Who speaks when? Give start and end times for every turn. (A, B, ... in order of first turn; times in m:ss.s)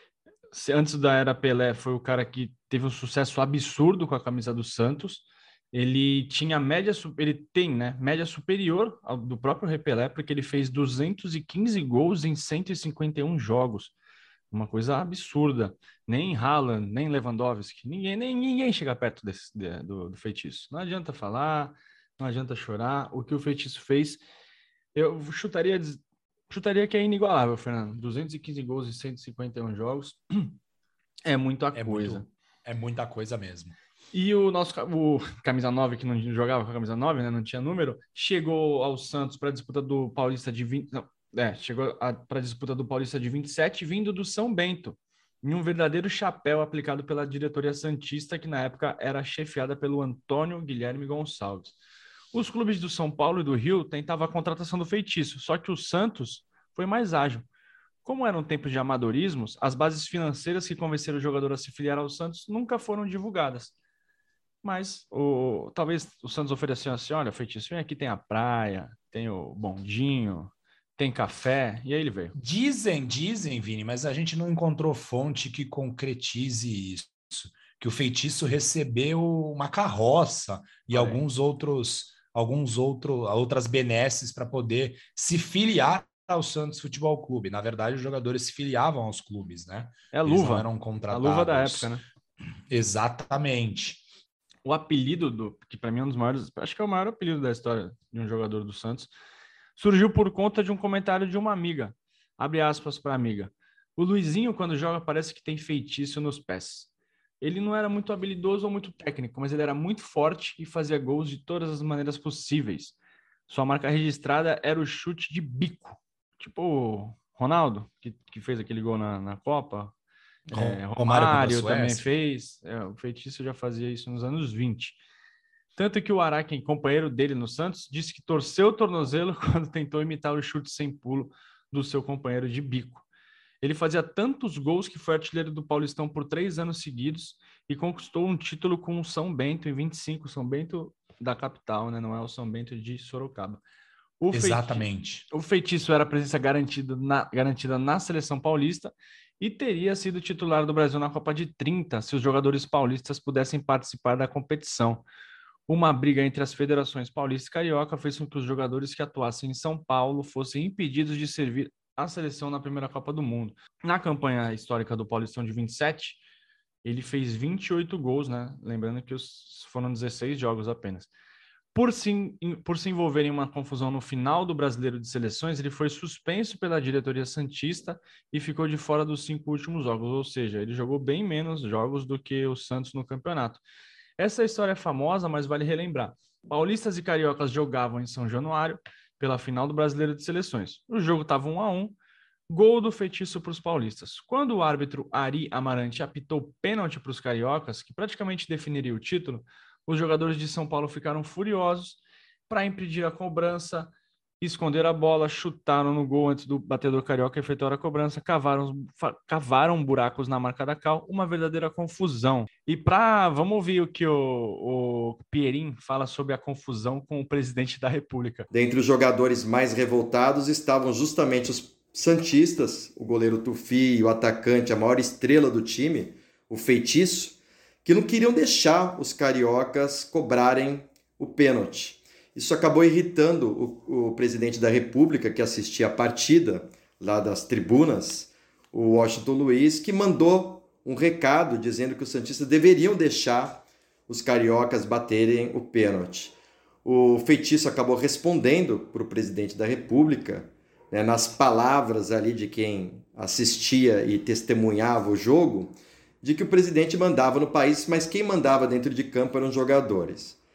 0:00.5-0:13.9 A
0:14.5-0:24.2 A
0:24.9-0:30.6 A
0:31.2-0:32.2 A
0:31.7-0:33.7 B
0:34.1-0:51.8 A
0:52.3-0:57.4 A
0:58.0-1:03.7 A
1:04.6-1:12.3 A
1:12.4-1:31.9 B
1:20.9-1:21.2 A
1:30.1-1:32.0 A
1:32.7-1:34.0 B
1:34.6-1:39.1 A
1:39.8-1:46.9 A
1:47.4-1:53.0 A
1:53.5-1:59.9 A
2:00.5-2:05.0 A
2:00.5-2:02.0 B
2:05.7-2:13.0 A
2:13.6-2:23.6 A
2:24.2-2:35.0 A
2:24.3-2:25.2 B
2:35.7-2:46.2 A
2:46.8-2:51.1 A
2:51.7-3:03.6 A
3:04.2-3:12.0 A
3:12.5-3:38.5 A
3:38.5-4:20.4 C